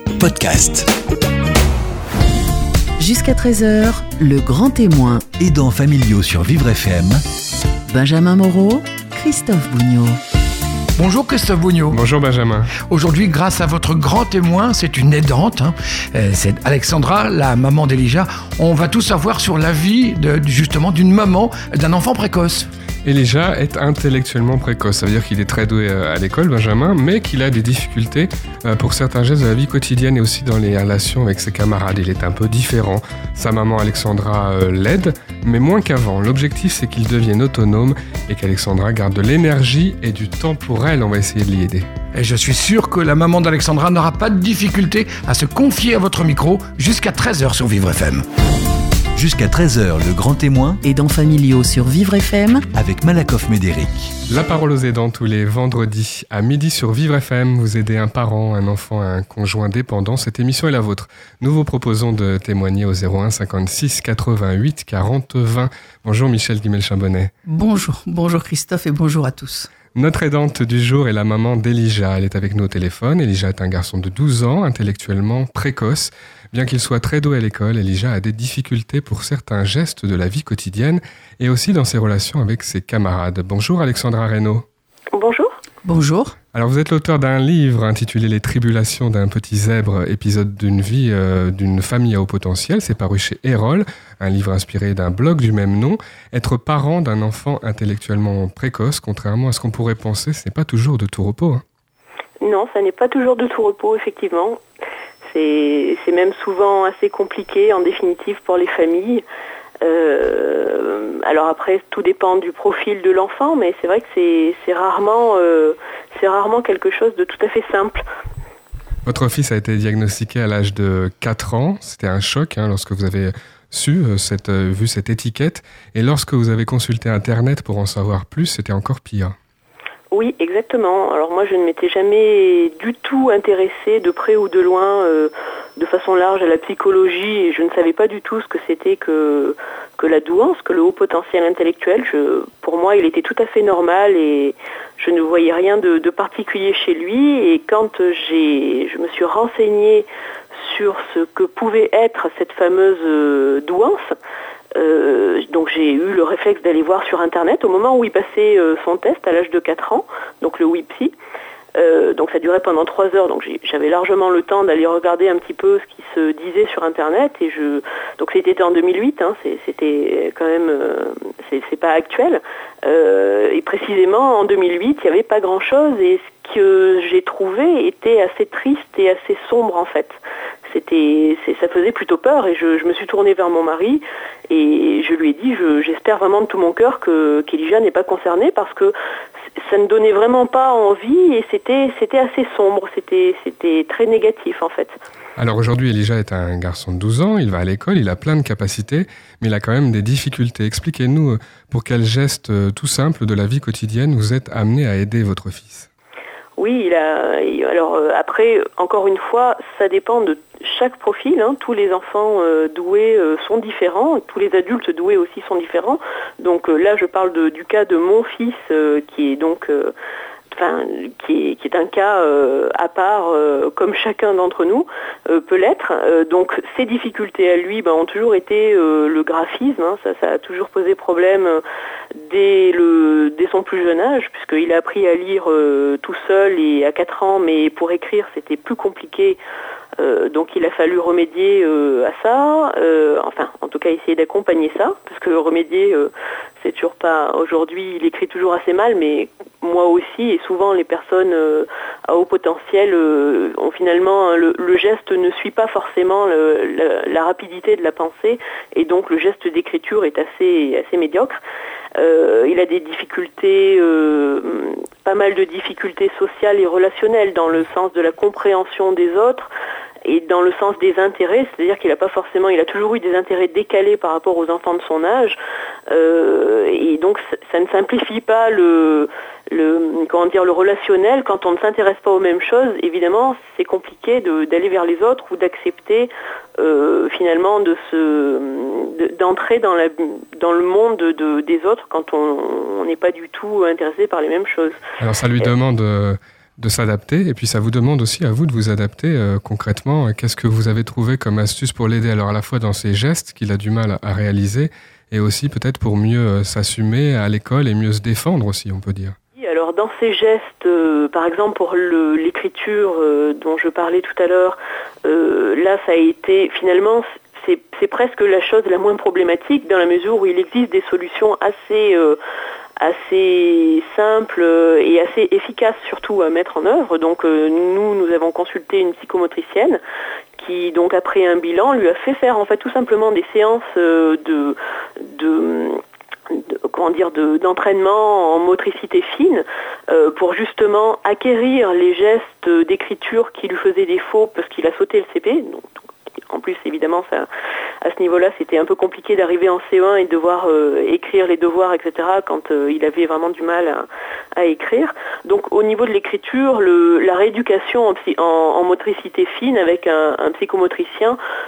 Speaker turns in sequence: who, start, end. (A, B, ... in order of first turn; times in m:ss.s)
0:00.2-0:00.9 A
0:03.0-0:05.2 B
0:05.4-0:07.2 A
0:07.9-0:10.2 B
0:11.0-0:12.0 C
0:11.9-0:12.7 D
0:12.8-0:22.7 C
0:23.0-0:41.9 D
0:42.1-0:48.2 C
0:49.2-0:50.8 A
0:50.8-0:52.6 B
0:52.7-0:54.1 A
0:54.3-1:07.3 D
1:07.4-1:09.7 E
1:09.9-1:24.6 D
1:25.1-1:25.5 F
1:25.8-1:26.4 E
1:26.5-1:41.6 D
1:42.4-1:44.6 F
1:45.3-1:49.2 F
1:49.8-1:58.0 F
1:59.0-2:09.4 D
2:10.1-2:34.1 F
2:34.7-2:41.1 F
2:41.7-3:08.9 F
3:09.6-3:15.0 F
3:15.4-3:25.9 D
3:26.6-3:39.9 F
3:40.5-3:51.6 F
3:52.2-3:59.4 F
4:00.0-4:21.4 F
4:22.0-4:29.5 F
4:30.0-4:35.4 F
4:35.9-4:54.8 F
4:55.0-5:09.1 D
5:09.4-5:22.2 F
5:22.8-5:29.8 F
5:30.4-5:45.7 F
5:46.3-5:47.3 F
5:47.8-6:01.2 F